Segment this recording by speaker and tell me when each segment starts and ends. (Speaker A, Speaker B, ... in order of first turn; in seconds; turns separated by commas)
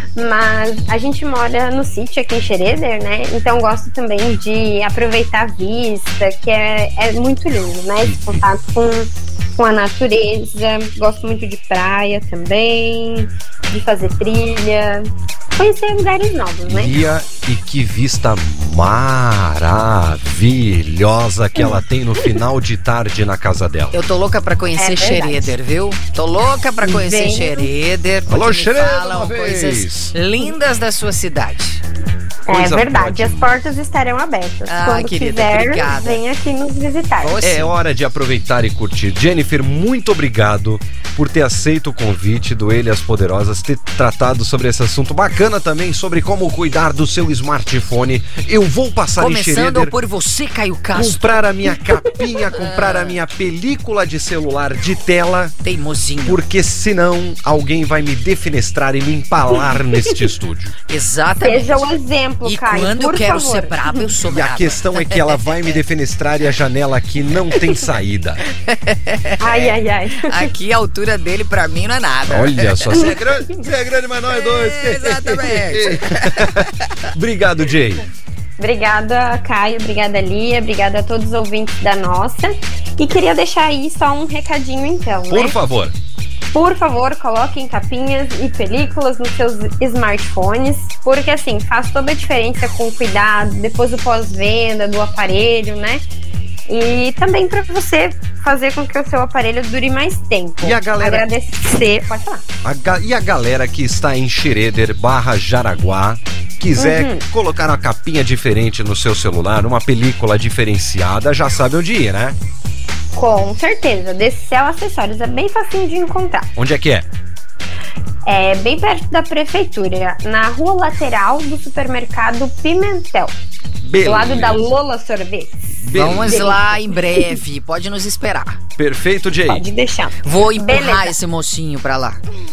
Speaker A: 0.2-17.0, Speaker B: 8.0-8.4, Speaker B: 16.6-23.9, Speaker C: 23.9-31.8, Speaker A: 24.8-25.5, Speaker A: 26.8-27.7, Speaker B: 28.3-30.1, Speaker A: 32.5-37.4, Speaker B: 32.5-33.7, Speaker C: 34.7-36.2, Speaker C: 37.2-37.7, Speaker B: 37.4-49.9, Speaker C: 49.2-51.3, Speaker B: 50.9-55.6, Speaker C: 52.5-53.2, Speaker C: 55.6-56.4, Speaker B: 56.3-60.8, Speaker C: 60.9-61.9, Speaker A: 61.4-64.0, Speaker C: 62.4-65.8, Speaker B: 64.3-68.4, Speaker C: 68.5-73.1, Speaker A: 69.4-70.5, Speaker B: 72.3-78.0, Speaker C: 74.3-77.1, Speaker A: 78.6-85.6, Speaker B: 85.3-86.0, Speaker A: 86.5-96.0, Speaker A: 96.7-102.4, Speaker B: 100.6-101.3, Speaker B: 102.6-112.4, Speaker A: 106.8-107.2, Speaker A: 113.2-116.5, Speaker B: 116.6-117.1, Speaker A: 118.3-123.3, Speaker B: 123.8-124.7, Speaker A: 124.0-127.4, Speaker B: 125.8-126.6, Speaker C: 125.9-128.6, Speaker B: 128.8-129.7, Speaker A: 129.5-131.1, Speaker C: 130.2-132.2